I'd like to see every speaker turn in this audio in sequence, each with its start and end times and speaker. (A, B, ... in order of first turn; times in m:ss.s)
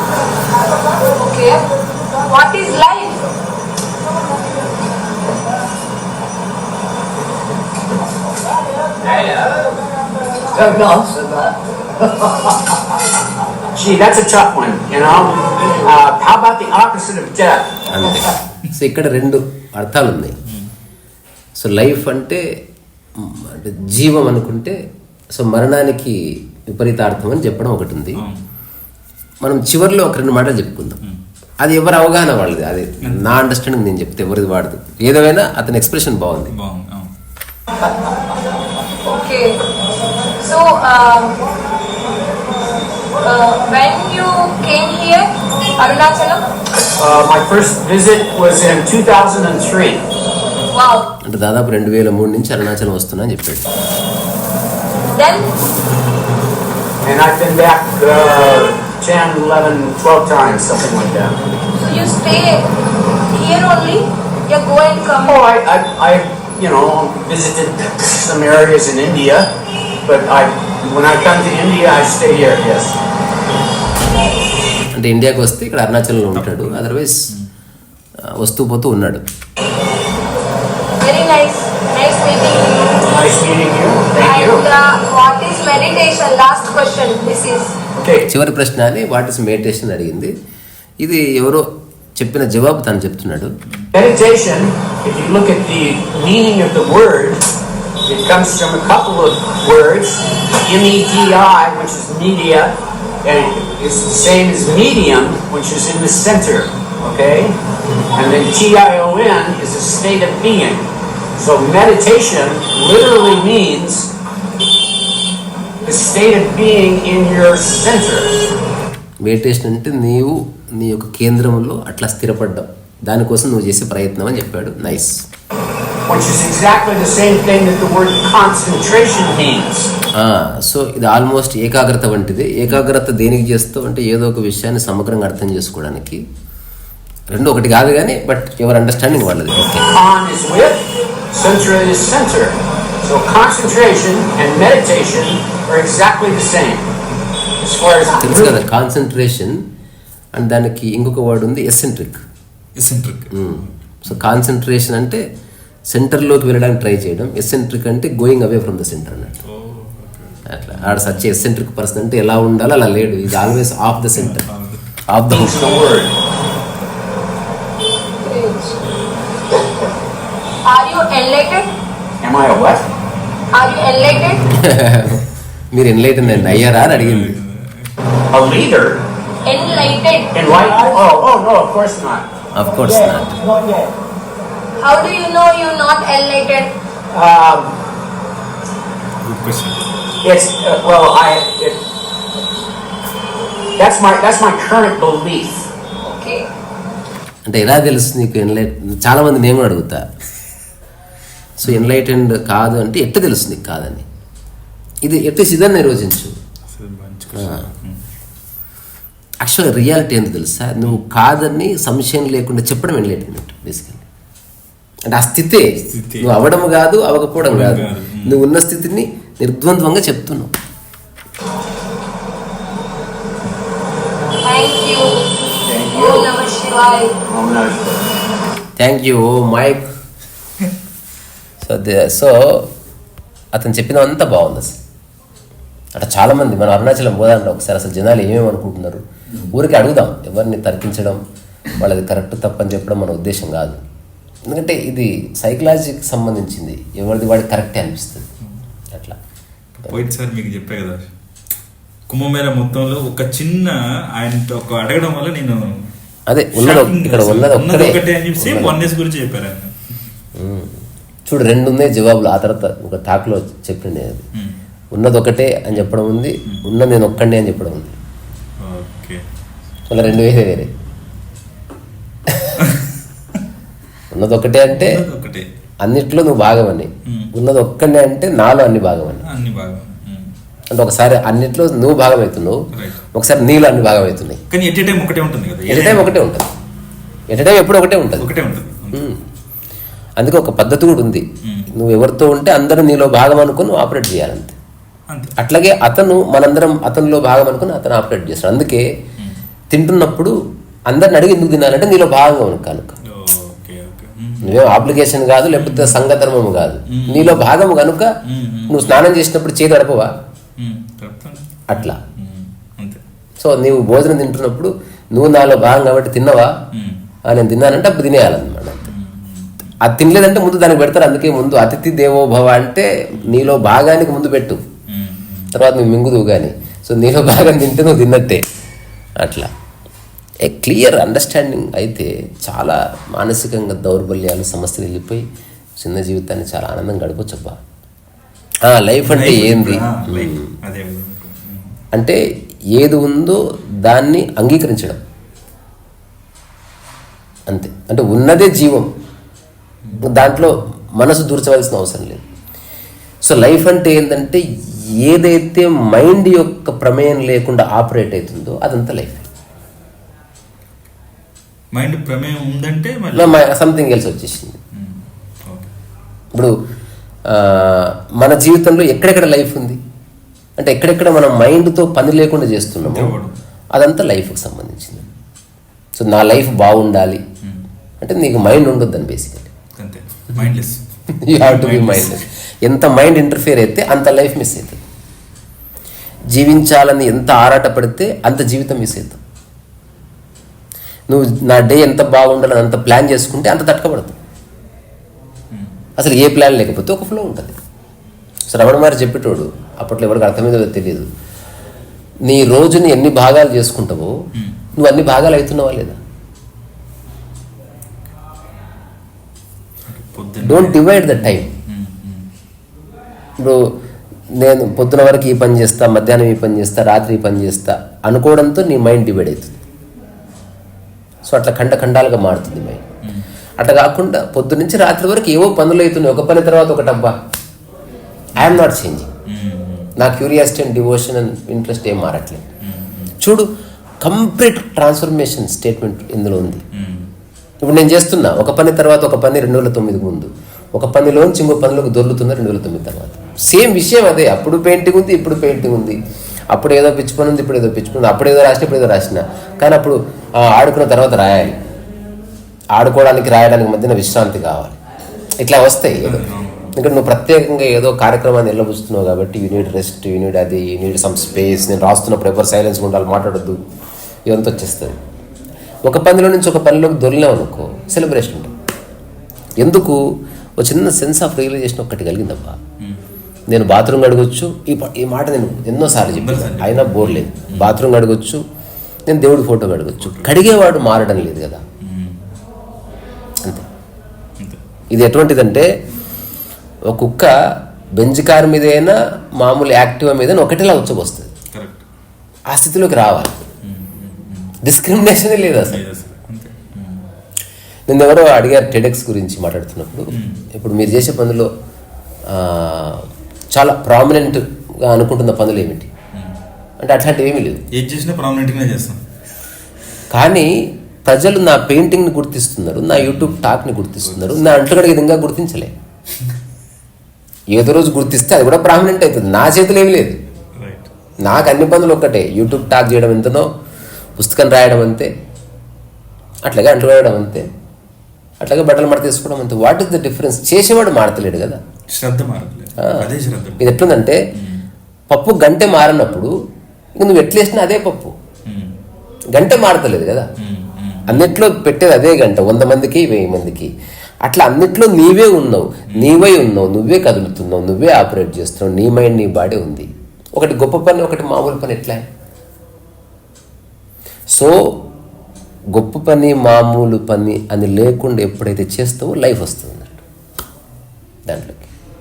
0:01.0-0:01.7 A
0:02.3-0:03.3 A
0:10.5-0:11.2 B
0:13.7-0:17.9 B
0:17.9-0:20.4 C
0:21.6-0:22.4 C
0:23.2-0:24.8 C
0:25.3-0:28.2 C
0:28.2-0:28.4 D
0:29.4-0:31.0 C
0:31.6-0:36.5 C
0:33.0-0:33.3 D
0:36.5-0:37.1 D
0:39.0-0:39.6 A
0:40.4-0:41.4 A
0:43.2-0:46.4 A
0:47.0-0:50.0 B
0:50.7-0:51.1 A
0:51.2-0:53.6 C
0:55.1-0:55.5 A
0:57.0-1:01.4 B
1:01.8-1:02.7 A
1:03.3-1:05.4 A
1:05.2-1:09.5 B
1:10.0-1:12.9 B
1:14.9-1:17.3 C
1:16.3-1:17.5 D
1:18.2-1:19.2 C
1:21.0-1:23.1 A
1:23.1-1:24.6 B
1:24.2-1:27.8 A
1:27.9-1:28.3 B
1:28.3-1:30.3 C
1:31.0-1:33.5 C
1:33.9-1:37.4 B
1:38.0-1:47.6 B
1:48.1-1:50.8 B
1:51.4-1:54.1 B
1:55.8-1:58.3 B
1:59.2-2:05.2 C
2:06.1-2:09.9 B
2:10.1-2:16.2 C
2:17.3-2:19.9 C
2:19.9-2:26.9 B
2:27.6-2:28.6 B
2:28.2-2:29.6 C
2:30.3-2:32.2 C
2:32.8-2:34.2 D
2:33.3-2:35.2 C
2:35.9-2:39.4 C
2:39.4-2:41.3 D
2:40.5-2:44.4 C
2:43.3-2:43.6 D
2:44.1-2:44.8 D
2:45.1-2:45.8 C
2:45.3-2:46.1 B
2:48.2-2:48.8 A
2:50.6-2:51.7 A
2:52.2-2:52.8 B
2:53.5-2:54.5 A
2:54.5-2:57.3 C
2:56.2-2:58.0 D
2:58.3-2:59.0 B
2:59.4-3:00.3 A
3:00.3-3:02.3 B
3:02.5-3:03.4 C
3:03.1-3:03.8 B
3:04.8-3:06.7 A
3:07.1-3:07.7 B
3:09.2-3:09.9 D
3:10.2-3:11.8 B
3:13.8-3:15.7 B
3:16.0-3:16.4 A
3:17.4-3:20.0 C
3:21.6-3:24.0 C
3:25.0-3:26.3 C
3:26.7-3:28.0 D
3:27.4-3:27.6 C
3:29.4-3:34.0 C
3:35.1-3:40.5 C
3:35.9-3:36.3 D
3:37.4-3:38.4 D
3:44.4-3:45.2 A
3:45.6-3:46.3 B
3:45.9-3:47.1 A
3:47.3-3:48.0 B
3:48.8-3:49.8 C
3:51.6-3:52.7 C
3:53.5-3:54.8 C
3:55.9-4:01.2 C
4:01.8-4:03.8 C
4:04.5-4:08.3 C
4:08.9-4:09.2 C
4:09.8-4:11.1 D
4:12.1-4:15.8 D
4:16.3-4:18.8 C
4:16.5-4:19.8 D
4:20.3-4:24.2 C
4:24.9-4:28.0 C
4:28.6-4:29.2 D
4:29.9-4:30.7 C
4:32.6-4:33.4 D
4:34.1-4:35.0 C
4:34.7-4:35.5 D
4:35.8-4:39.2 C
4:37.0-4:37.3 D
4:39.2-4:40.3 D
4:40.7-4:44.4 C
4:42.7-4:43.0 D
4:44.5-4:46.2 D
4:45.7-4:46.5 C
4:47.3-4:48.3 C
4:48.2-4:49.1 D
4:48.9-4:49.2 C
4:50.2-4:54.5 C
4:51.4-4:51.7 D
4:55.1-4:55.4 D
4:55.4-4:58.8 C
4:59.7-5:00.3 C
5:00.9-5:03.0 C
5:03.0-5:04.8 D
5:04.4-5:08.1 C
5:05.5-5:06.1 D
5:06.9-5:07.5 D
5:08.2-5:09.0 D
5:08.7-5:10.1 C
5:10.6-5:13.0 D
5:11.7-5:12.0 C
5:13.4-5:16.5 C
5:16.7-5:17.0 D
5:17.3-5:18.9 C
5:18.8-5:19.7 D
5:19.8-5:24.6 C
5:24.9-5:25.6 D
5:25.5-5:28.4 C
5:29.2-5:29.5 C
5:30.4-5:35.2 C
5:35.8-5:37.6 C
5:38.6-5:40.5 C
5:39.0-5:41.8 D
5:41.9-5:42.2 C
5:42.7-5:45.0 C
5:47.5-5:48.9 C
5:50.0-5:52.2 C
5:53.2-5:59.3 C
6:01.7-6:03.4 D
6:03.1-6:04.6 C
6:04.7-6:05.7 D
6:07.3-6:09.8 C
6:10.6-6:13.1 C
6:12.8-6:13.4 D
6:13.7-6:15.1 C
6:15.9-6:17.2 C
6:18.0-6:19.5 C
6:19.8-6:20.8 D
6:21.1-6:24.8 C
6:21.3-6:22.2 D
6:26.3-6:29.2 C
6:31.1-6:34.2 C
6:35.5-6:35.8 D
6:36.0-6:37.5 C
6:38.5-6:41.1 C
6:42.2-6:44.1 C
6:44.3-6:44.6 D
6:44.8-6:46.0 C
6:49.8-6:52.3 D
6:50.4-6:51.5 C
6:54.3-6:59.6 C
7:01.2-7:02.8 C
7:03.6-7:07.1 C
7:08.4-7:09.1 C
7:09.2-7:09.9 D
7:10.0-7:12.4 C
7:12.6-7:13.1 D
7:13.2-7:13.5 C
7:14.0-7:16.6 C
7:16.7-7:17.1 D
7:17.6-7:26.0 C
7:26.5-7:31.6 C
7:32.7-7:34.8 C
7:35.4-7:43.6 C
7:36.0-7:36.8 D
7:44.3-7:45.0 C
7:45.8-7:48.5 C
7:49.6-7:52.6 C
7:52.8-7:53.0 D
7:53.5-7:58.4 C
7:56.0-7:57.8 D
7:59.1-8:01.6 C
8:00.0-8:00.4 D
8:01.8-8:02.3 D
8:04.9-8:05.7 C
8:06.9-8:07.3 C
8:08.0-8:11.3 C
8:11.5-8:11.8 D
8:12.5-8:13.4 C
8:13.6-8:14.6 D
8:14.6-8:15.8 C
8:15.6-8:17.1 D
8:17.9-8:21.5 C
8:20.1-8:20.4 D
8:22.3-8:25.9 C
8:26.8-8:27.6 C
8:27.7-8:29.0 D
8:30.1-8:30.5 C
8:31.0-8:35.7 C
8:33.0-8:33.4 D
8:34.0-8:34.6 D
8:37.5-8:40.2 C
8:40.5-8:40.9 D
8:41.2-8:43.5 C
8:44.2-8:45.1 C
8:46.4-8:47.5 C
8:48.4-8:51.6 C
8:51.9-8:54.7 D
8:52.8-8:53.1 C
8:53.6-8:54.2 C
8:55.1-8:56.3 C
8:57.0-8:58.1 C
8:58.4-8:58.8 D
8:59.3-9:00.3 C
9:00.4-9:01.4 D
9:01.1-9:03.7 C
9:04.2-9:12.0 C
9:14.3-9:14.9 C
9:15.7-9:20.0 C
9:21.3-9:21.7 C